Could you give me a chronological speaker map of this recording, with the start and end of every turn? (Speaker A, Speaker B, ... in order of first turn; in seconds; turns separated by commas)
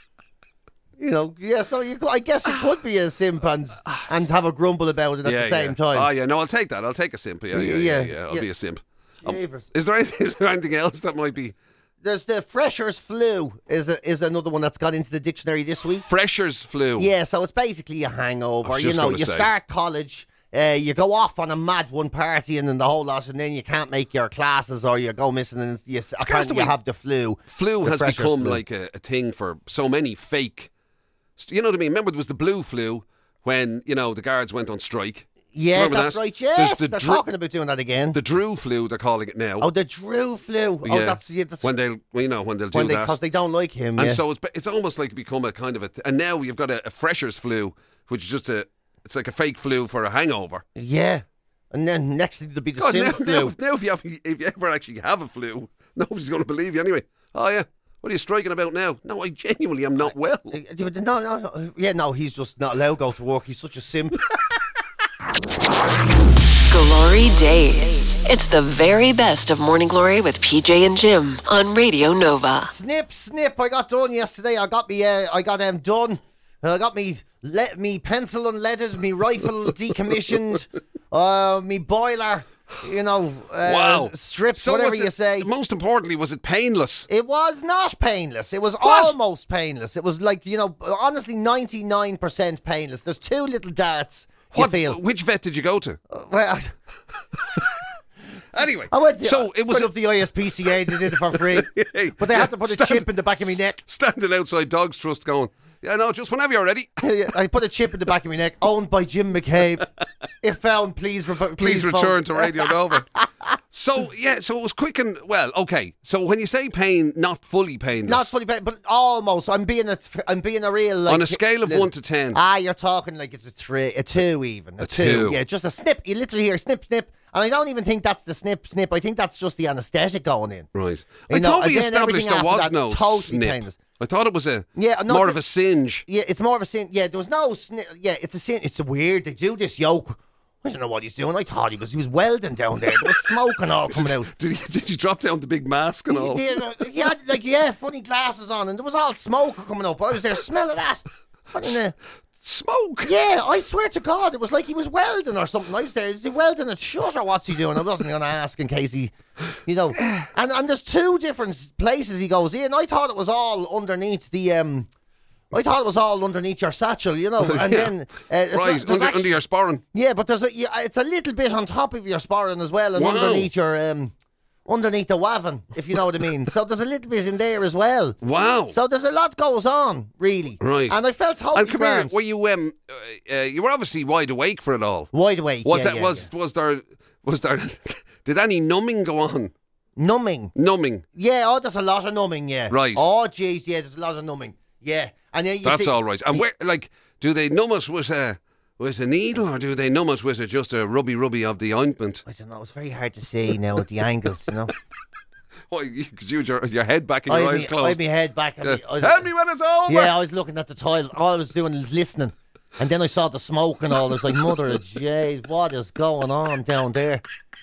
Speaker A: 1.0-6.1, Speaker B: 5.2-11.6, Speaker A: 7.5-8.5, Speaker A: 9.2-9.7, Speaker A: 12.0-16.1, Speaker B: 16.1-17.1, Speaker A: 17.0-28.6, Speaker B: 18.6-19.5, Speaker B: 26.2-26.8, Speaker B: 27.5-30.7, Speaker B: 31.4-37.2, Speaker A: 35.5-38.2, Speaker B: 38.1-39.7, Speaker A: 39.6-41.7, Speaker B: 40.8-43.2, Speaker A: 42.7-44.2, Speaker B: 44.0-50.6, Speaker A: 50.8-53.5, Speaker B: 52.8-60.5, Speaker A: 60.5-64.2, Speaker C: 66.7-72.7, Speaker A: 72.6-85.5, Speaker B: 83.6-87.1, Speaker A: 87.1-95.0, Speaker B: 88.8-89.1, Speaker B: 94.5-96.0, Speaker A: 96.1-96.7, Speaker B: 98.5-100.0, Speaker A: 98.9-103.8, Speaker B: 100.6-107.0, Speaker A: 107.0-109.9, Speaker A: 110.4-113.2, Speaker B: 111.6-113.1, Speaker B: 113.7-118.3, Speaker A: 118.0-130.7, Speaker B: 121.1-122.4, Speaker B: 124.8-125.4, Speaker B: 130.7-136.1, Speaker A: 131.3-133.8, Speaker A: 134.8-135.4, Speaker A: 136.1-144.3, Speaker B: 143.9-146.5, Speaker A: 146.1-151.9, Speaker B: 152.4-153.2, Speaker A: 153.0-164.9, Speaker B: 160.0-160.3, Speaker A: 165.5-169.3, Speaker B: 167.4-167.9, Speaker B: 168.5-169.8, Speaker A: 169.9-174.1, Speaker B: 172.9-173.5, Speaker A: 174.7-178.2, Speaker B: 178.2-178.8, Speaker A: 178.7-182.1, Speaker B: 180.6-181.0, Speaker B: 181.5-185.1, Speaker A: 185.1-186.3, Speaker B: 185.6-189.5, Speaker A: 190.0-190.5, Speaker B: 190.5-191.0, Speaker A: 191.1-196.4, Speaker B: 192.7-193.0, Speaker B: 195.6-202.2, Speaker A: 202.2-204.7, Speaker B: 205.7-208.0, Speaker A: 207.3-209.3, Speaker B: 208.6-210.2, Speaker A: 209.8-217.2